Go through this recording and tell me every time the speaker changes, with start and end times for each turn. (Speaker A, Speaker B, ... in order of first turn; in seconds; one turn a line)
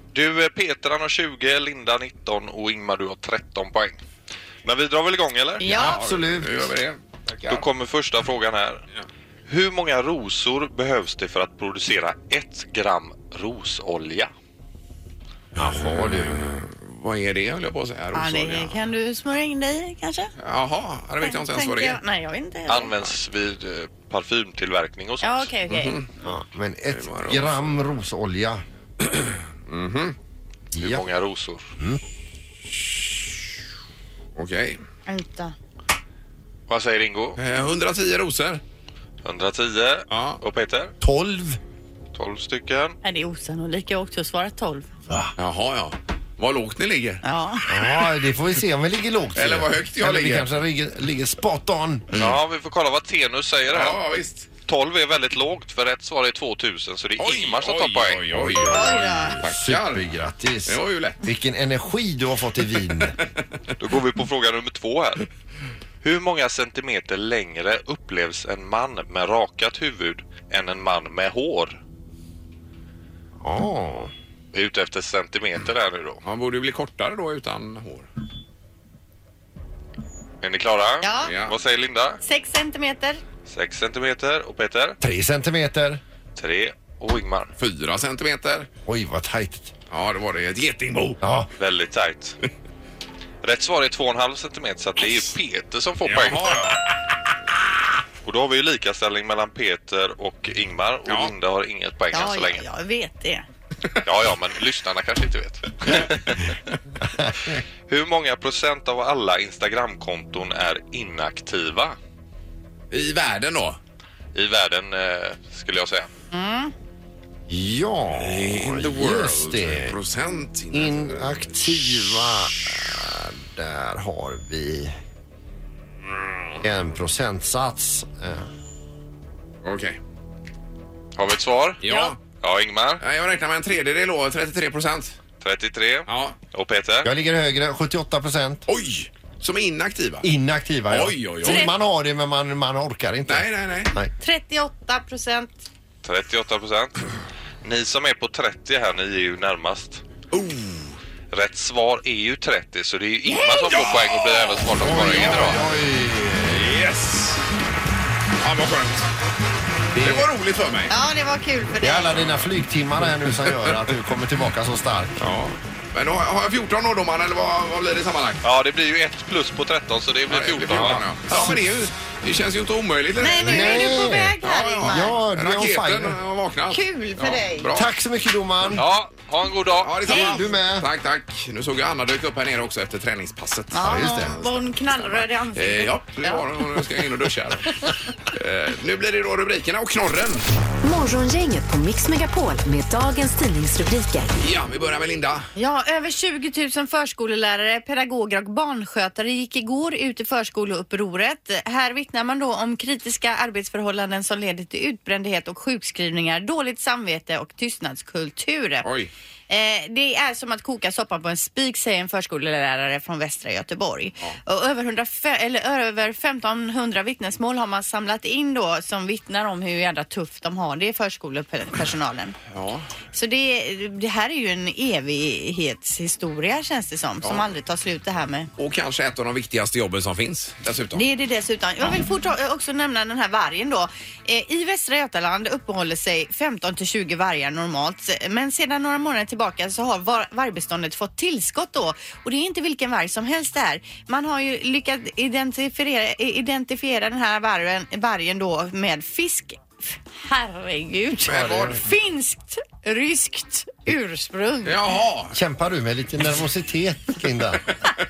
Speaker A: 0.1-4.0
Speaker A: 4.7-5.6
Speaker B: 5.6-6.0
Speaker C: 5.7-6.7
Speaker D: 5.7-7.7
Speaker A: 7.4-8.8
Speaker A: 9.5-14.3
Speaker C: 15.6-16.4
Speaker D: 15.6-18.8
Speaker B: 18.1-20.3
Speaker D: 20.4-22.0
Speaker B: 21.2-23.0
Speaker A: 22.7-25.5
Speaker B: 25.2-26.0
Speaker D: 25.7-26.1
Speaker C: 26.2-28.6
Speaker D: 26.9-27.8
Speaker D: 29.1-30.2
Speaker C: 30.7-31.0
Speaker A: 30.8-31.7
Speaker D: 34.4-34.8
Speaker B: 35.1-35.5
Speaker A: 36.7-37.4
Speaker D: 37.4-38.6
Speaker A: 39.2-40.9
Speaker D: 40.1-40.4
Speaker C: 41.0-41.6
Speaker A: 42.1-43.0
Speaker B: 43.0-44.9
Speaker D: 45.4-47.2
Speaker B: 47.2-47.7
Speaker C: 47.7-52.2
Speaker D: 49.4-50.5
Speaker A: 52.1-54.0
Speaker D: 53.7-54.5
Speaker A: 54.7-58.5
Speaker D: 57.2-60.1
Speaker C: 58.4-63.2
Speaker B: 58.7-59.4
Speaker D: 60.7-61.2
Speaker A: 63.8-65.3
Speaker A: 66.0-71.8
Speaker C: 73.4-74.1
Speaker A: 74.5-76.2
Speaker D: 76.2-78.1
Speaker A: 80.4-82.2
Speaker B: 81.0-81.3
Speaker D: 81.2-81.6
Speaker B: 82.2-83.2
Speaker A: 83.5-85.0
Speaker C: 85.0-86.0
Speaker A: 86.4-87.5
Speaker D: 87.6-88.7
Speaker C: 88.9-89.7
Speaker D: 89.9-91.2
Speaker C: 91.2-91.5
Speaker A: 91.6-92.4
Speaker A: 93.4-96.7
Speaker D: 96.0-96.8
Speaker A: 98.2-102.7
Speaker D: 101.1-101.3
Speaker B: 102.1-103.4
Speaker A: 104.0-106.5
Speaker A: 107.9-112.0
Speaker D: 112.9-113.8
Speaker A: 114.3-116.1
Speaker B: 116.3-116.7
Speaker C: 117.5-120.0
Speaker D: 118.1-122.5
Speaker C: 120.7-125.0
Speaker D: 126.3-126.5
Speaker C: 126.6-128.5
Speaker D: 129.6-130.0
Speaker A: 131.2-133.0
Speaker D: 131.8-132.2
Speaker B: 131.9-132.1
Speaker D: 133.0-135.2
Speaker A: 135.4-137.1
Speaker D: 136.1-136.4
Speaker C: 137.0-138.7
Speaker D: 138.7-140.3
Speaker C: 140.2-144.1
Speaker D: 140.9-141.7
Speaker B: 141.4-141.8
Speaker D: 143.3-143.9
Speaker B: 144.2-145.6
Speaker A: 146.0-146.9
Speaker A: 147.6-150.0
Speaker D: 150.3-150.8
Speaker A: 151.3-155.6
Speaker D: 153.4-155.6
Speaker C: 154.8-156.8
Speaker D: 156.5-157.4
Speaker D: 158.4-159.1
Speaker C: 159.9-160.3
Speaker D: 160.0-160.9
Speaker B: 160.9-162.2
Speaker C: 161.8-165.2
Speaker D: 165.2-168.4
Speaker A: 168.4-171.2
Speaker D: 170.3-177.9
Speaker C: 171.3-171.6
Speaker B: 173.2-175.2
Speaker C: 173.4-176.2
Speaker B: 176.7-177.7
Speaker C: 177.8-178.8
Speaker A: 178.7-180.1
Speaker D: 179.8-190.5
Speaker C: 180.1-180.9
Speaker B: 183.7-186.4
Speaker C: 183.8-184.4
Speaker E: 190.8-194.3
Speaker D: 194.4-195.5
Speaker B: 195.6-208.9
Speaker D: 208.8-209.1
Speaker B: 209.5-222.4
Speaker D: 222.5-222.9
Speaker B: 223.1-228.5
Speaker D: 228.6-231.0
Speaker B: 230.9-254.8
Speaker D: 251.3-251.8
Speaker C: 251.3-251.8
Speaker D: 254.7-255.4
Speaker C: 255.3-257.6